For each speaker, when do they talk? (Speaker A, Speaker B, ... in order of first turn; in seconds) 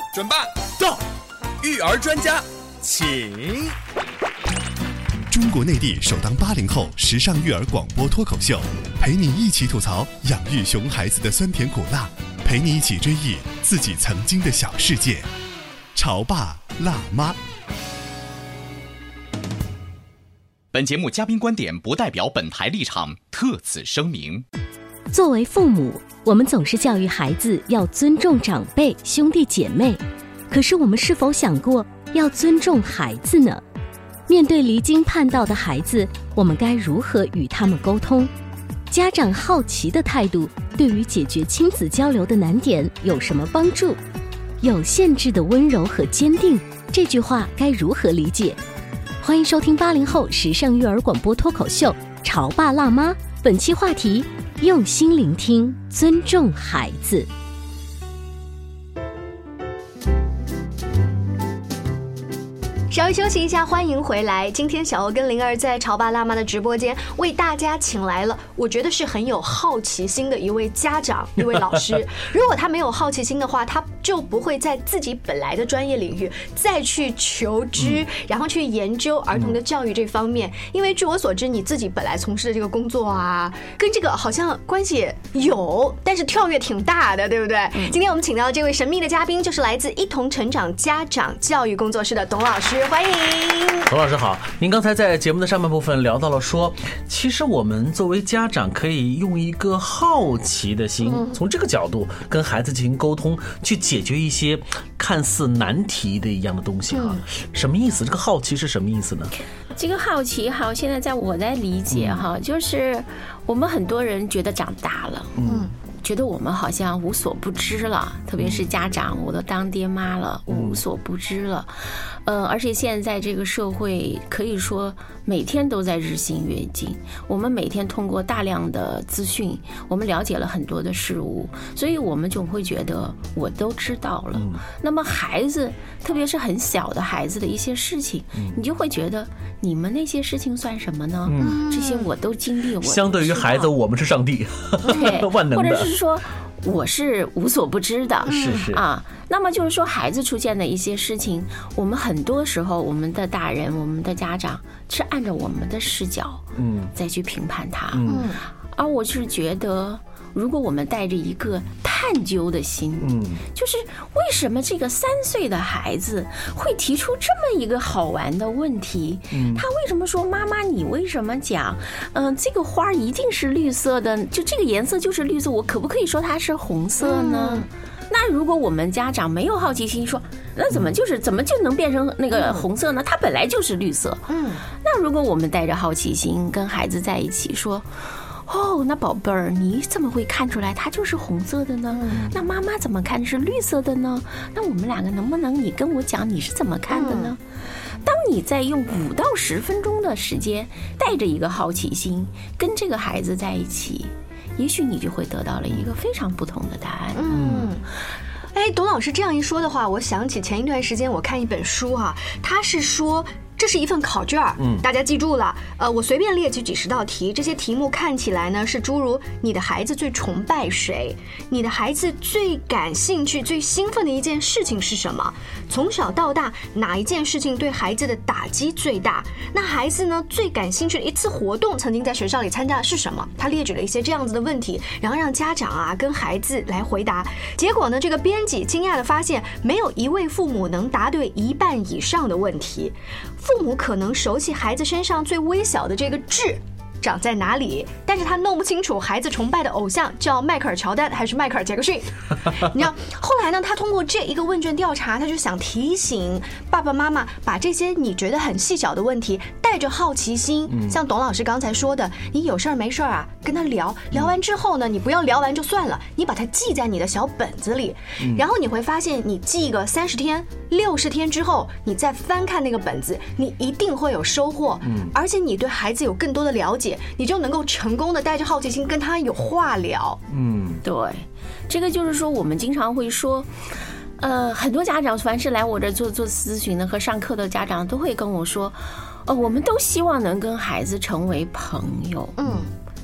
Speaker A: 0.1-1.0, 1.6-3.7
Speaker B: 5.3-15.3, 15.9-17.4
Speaker C: 20.7-24.4
Speaker D: 25.1-33.6, 34.3-38.3, 38.9-44.0, 44.6-48.6, 49.2-57.3
Speaker E: 62.9-93.9, 101.1-101.3, 106.9-107.2, 115.4-115.7, 141.4-142.1, 148.3-148.6, 158.0-158.4, 177.0-177.7, 182.3-182.7, 184.3-184.6, 191.9-192.2, 196.9-197.3, 207.1-207.8, 208.5-280.2, 292.4-292.7
Speaker F: 77.8-78.0, 93.9-109.3, 111.9-112.2, 115.4-115.7, 118.4-118.7, 120.5-120.8, 134.3-134.6, 141.2-141.7, 142.8-145.9, 148.2-148.8, 156.6-156.9, 157.9-158.3, 163.0-163.4, 169.3-169.6, 207.3-207.7, 214.6-214.8, 260.7-261.0, 268.2-268.4, 274.8-275.1, 280.3-280.8
Speaker G: 109.7-115.3, 116.0-121.7, 122.2-143.7, 144.8-158.2, 158.7-187.9, 188.5-197.4, 198.0-207.6, 280.8-283.5, 284.2-292.4